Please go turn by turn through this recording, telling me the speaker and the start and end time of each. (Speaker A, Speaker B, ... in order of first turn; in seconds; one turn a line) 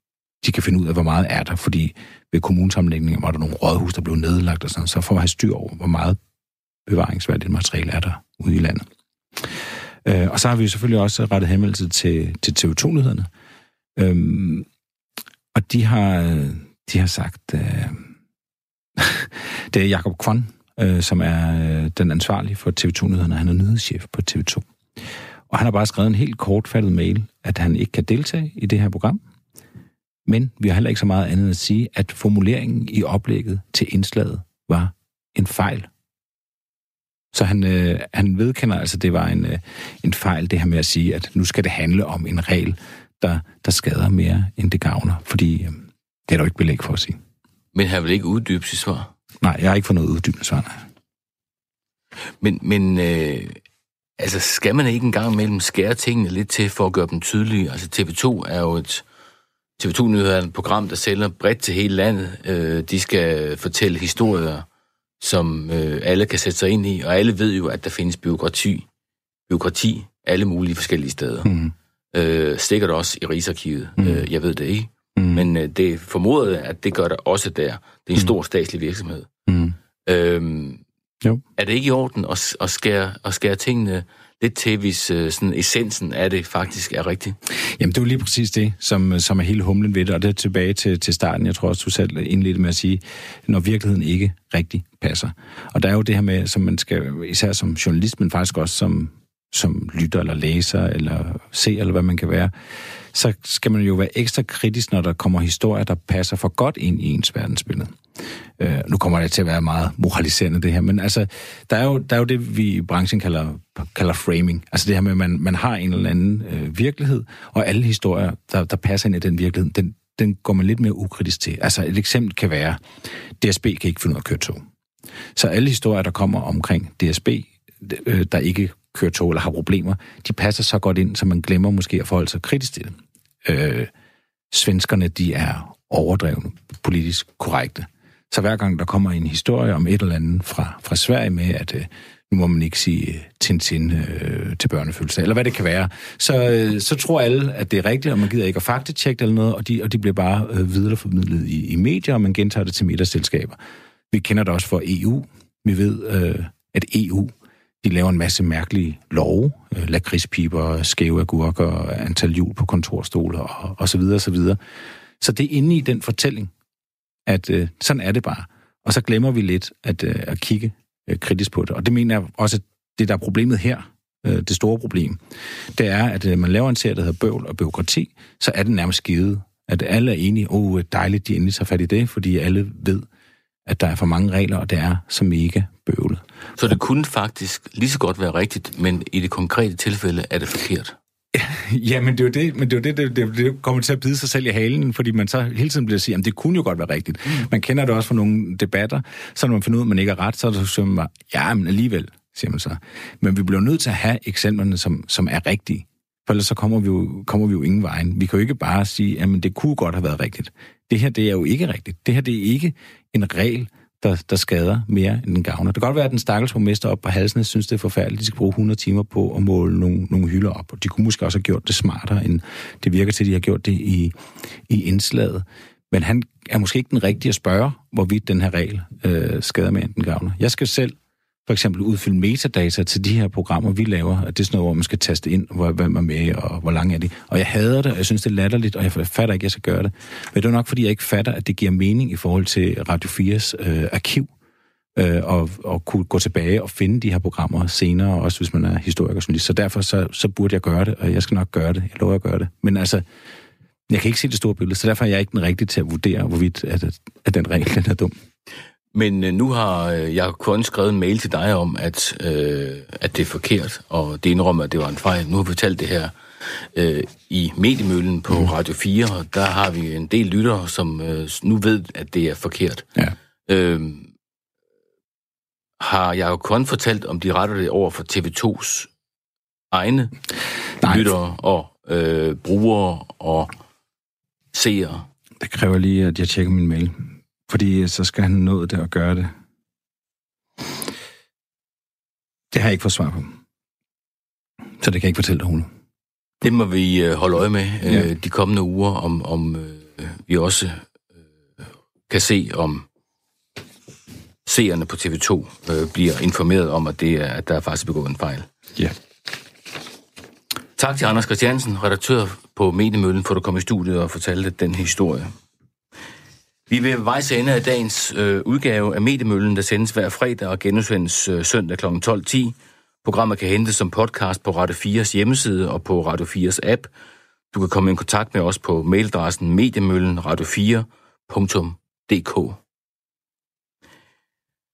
Speaker A: 0.4-6.2
Speaker A: 6.9-8.8
Speaker A: 9.4-13.3
Speaker A: 14.0-14.7
Speaker A: 15.5-18.1
Speaker A: 19.0-24.6
Speaker A: 25.5-29.2
Speaker A: 30.2-35.9
Speaker A: 37.3-47.2
Speaker B: 47.7-49.1
Speaker A: 49.4-50.8
Speaker B: 52.4-53.6
Speaker B: 54.2-59.0
Speaker B: 59.8-64.7
Speaker B: 65.2-68.8
Speaker B: 69.5-71.5
Speaker A: 71.4-71.7
Speaker B: 72.1-79.3
Speaker A: 74.0-74.3
Speaker A: 75.2-75.5
Speaker A: 79.5-79.8
Speaker B: 80.0-80.8
Speaker B: 81.6-87.4
Speaker A: 87.8-102.5
Speaker A: 103.1-108.0
Speaker A: 108.6-122.8
Speaker A: 123.4-124.6
Speaker A: 125.3-133.9
Speaker A: 134.5-153.6
Speaker A: 154.1-164.6
Speaker A: 165.2-166.5
Speaker A: 167.3-175.2
Speaker A: 175.7-183.0
Speaker A: 183.7-186.2
Speaker B: 186.6-190.9
Speaker A: 191.3-224.1
Speaker A: 224.7-244.3
Speaker A: 244.9-253.0
Speaker A: 253.9-258.1
Speaker B: 258.9-272.9
Speaker B: 273.5-274.1
Speaker B: 275.8-278.9
Speaker B: 279.7-280.1
Speaker A: 280.8-281.1
Speaker B: 280.9-283.5
Speaker B: 284.5-285.1
Speaker A: 285.4-289.3
Speaker A: 292.5-293.4
Speaker A: 294.8-295.7
Speaker B: 296.4-300.9
Speaker B: 302.1-302.9
Speaker B: 304.4-308.5
Speaker B: 310.8-315.3
Speaker B: 316.7-326.9
Speaker B: 327.5-332.6